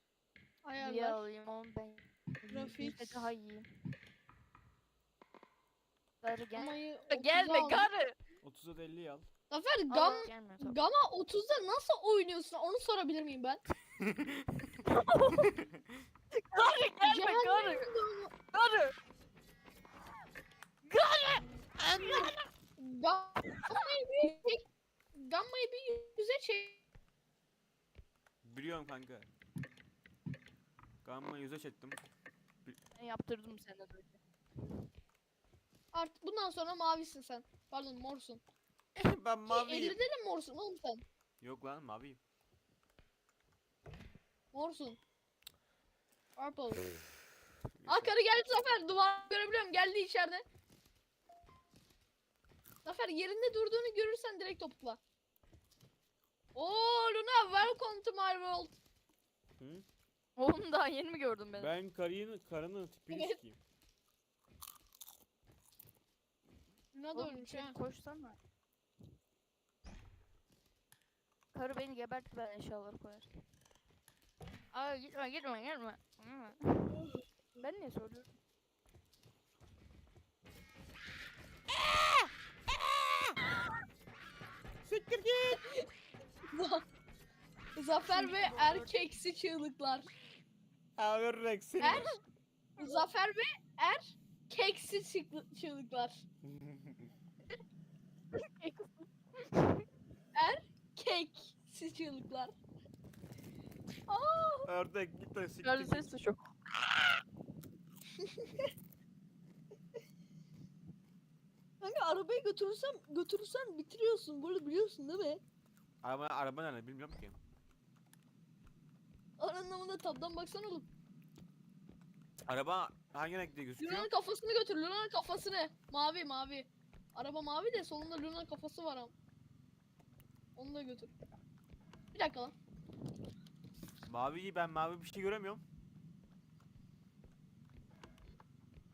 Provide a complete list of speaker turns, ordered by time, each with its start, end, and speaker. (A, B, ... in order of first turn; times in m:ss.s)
0:00.6-0:01.2 A
0:00.8-0:03.7 B
0:02.5-0:03.3 A
0:06.2-0:08.2 B
0:06.6-0:07.9 A
0:08.4-0:09.3 C
0:09.5-0:13.6 A
0:09.9-0:10.8 B
0:14.0-0:14.7 C
0:14.8-0:15.5 B
0:15.4-0:15.8 C
0:16.3-0:17.9 B
0:17.0-0:18.3 A
0:18.5-0:19.0 B
0:20.8-0:21.4 B
0:21.8-0:22.3 C
0:22.0-0:24.6 A
0:23.5-0:23.9 B
0:25.1-0:26.8 A
0:28.4-0:29.3 C
0:31.0-0:32.0 C
0:33.0-0:34.2 B
0:35.9-0:38.4 A
0:39.0-0:40.0 C
0:39.5-0:41.0 A
0:41.4-0:42.2 C
0:44.5-0:45.0 A
0:46.4-0:46.9 A
0:47.8-0:48.2 C
0:47.9-0:50.4 A
0:52.8-0:55.0 A
0:56.6-0:58.8 A
0:59.6-0:59.8 C
1:00.4-1:01.8 B
1:01.6-1:03.6 C
1:03.1-1:03.4 A
1:06.9-1:07.8 A
1:07.1-1:08.4 B
1:11.5-1:13.4 B
1:14.7-1:17.0 B
1:17.6-1:18.3 B
1:21.8-1:23.4 C
1:24.8-1:25.7 C
1:26.5-1:26.8 A
1:27.8-1:30.1 A
1:28.1-1:28.9 B
1:31.0-1:32.0 C
1:31.8-1:32.2 A
1:32.8-1:33.1 B
1:32.8-1:36.2 A
1:38.3-1:39.8 B
1:40.4-1:42.5 A
1:44.1-1:44.7 A
1:44.6-1:46.1 C
1:45.6-1:46.4 B
1:48.2-1:48.7 A
1:51.8-1:55.4 A
1:56.0-1:57.4 C
1:59.4-2:00.9 A
2:02.5-2:04.1 C
2:03.8-2:09.1 A
2:10.6-2:11.1 A
2:12.1-2:12.5 A
2:14.0-2:15.6 C